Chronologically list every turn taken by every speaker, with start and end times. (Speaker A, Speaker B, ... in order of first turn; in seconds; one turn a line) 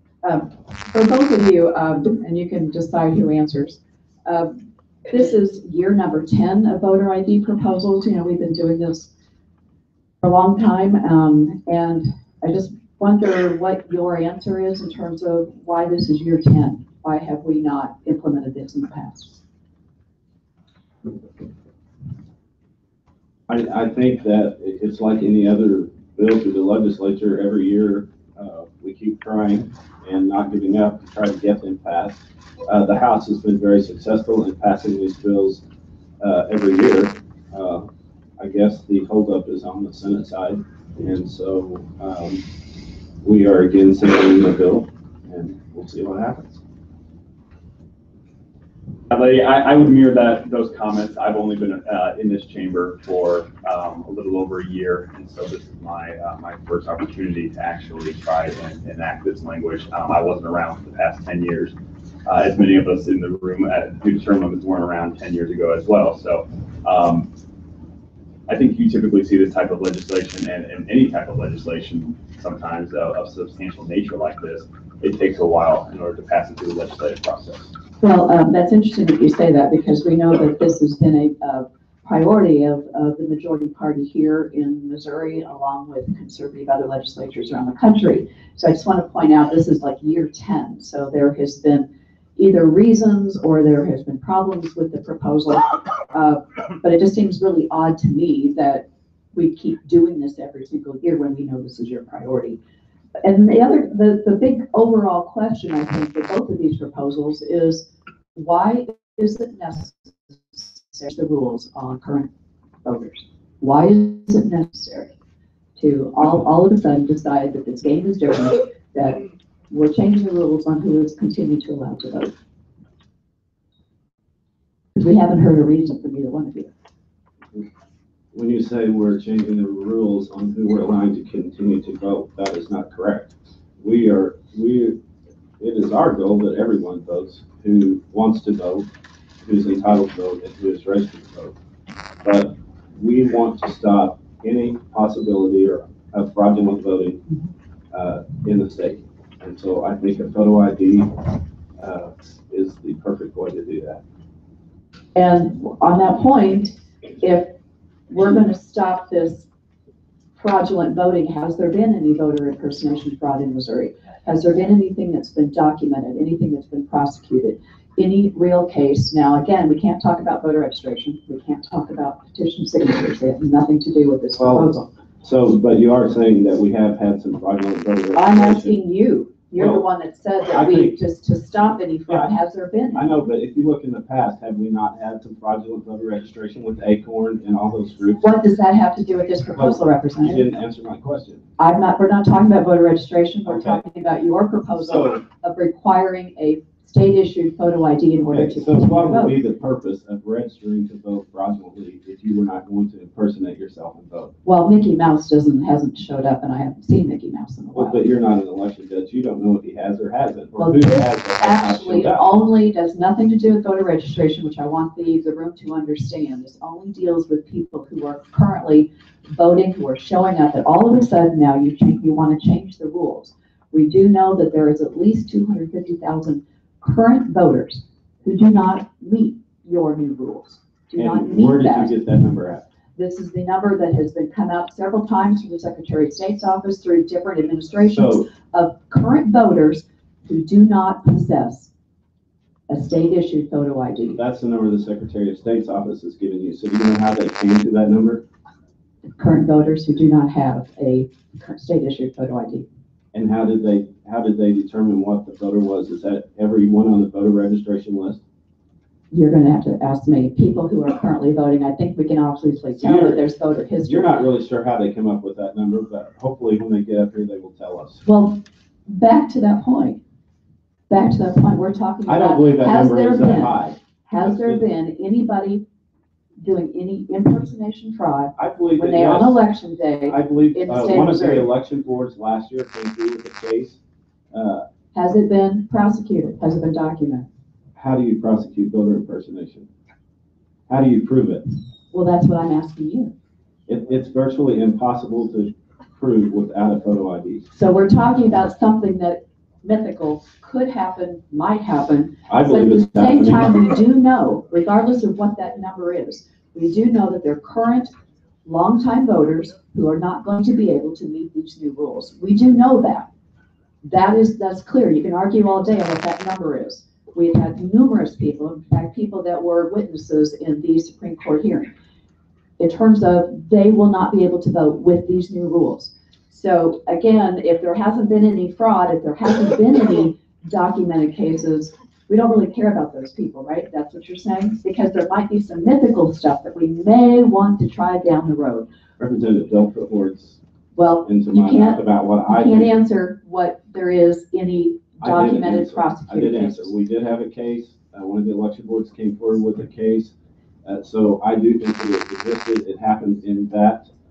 Speaker A: 0.2-9.1
Speaker A: 10.2-19.4
Speaker B: 23.5-35.6
Speaker B: 36.2-42.5
Speaker B: 43.2-46.6
Speaker C: 49.1-61.8
Speaker C: 62.2-67.3
Speaker C: 68.5-77.7
Speaker A: 78.0-102.6
Speaker A: 103.2-112.3
Speaker A: 112.8-115.1
Speaker A: 115.8-122.3
Speaker A: 125.0-126.7
Speaker B: 128.3-135.0
Speaker B: 135.6-138.9
Speaker B: 139.4-141.6
Speaker B: 142.2-147.2
Speaker B: 147.9-154.0
Speaker A: 155.2-157.6
Speaker A: 158.1-159.4
Speaker A: 160.3-174.9
Speaker B: 174.3-174.7
Speaker B: 175.2-178.8
Speaker A: 178.2-183.1
Speaker B: 179.6-179.9
Speaker B: 180.5-181.0
Speaker B: 182.1-182.3
Speaker B: 182.9-188.3
Speaker A: 188.2-190.5
Speaker B: 189.5-191.4
Speaker A: 191.6-199.4
Speaker B: 193.4-193.8
Speaker B: 194.8-195.2
Speaker B: 198.3-204.3
Speaker A: 204.4-208.1
Speaker B: 207.7-212.2
Speaker A: 210.6-232.0
Speaker B: 230.9-232.7
Speaker A: 232.9-241.7
Speaker B: 237.9-238.2
Speaker A: 242.7-244.2
Speaker B: 244.1-248.2
Speaker A: 249.2-252.7
Speaker B: 253.1-258.2
Speaker A: 259.1-264.2
Speaker B: 262.7-263.2
Speaker B: 263.8-268.0
Speaker A: 268.1-270.0
Speaker A: 270.9-275.6
Speaker B: 272.1-274.7
Speaker A: 276.4-281.5
Speaker B: 278.4-279.4
Speaker B: 280.1-283.8
Speaker B: 284.3-284.7
Speaker A: 284.9-287.3
Speaker B: 287.7-289.7
Speaker B: 290.7-291.4
Speaker A: 291.9-293.1
Speaker B: 293.7-297.5
Speaker A: 297.6-307.9
Speaker B: 302.3-303.7
Speaker A: 308.4-313.1
Speaker A: 313.8-321.7
Speaker A: 322.6-338.7
Speaker B: 339.0-340.4
Speaker A: 340.7-346.7
Speaker B: 341.0-342.7
Speaker B: 345.0-350.1
Speaker B: 350.6-353.9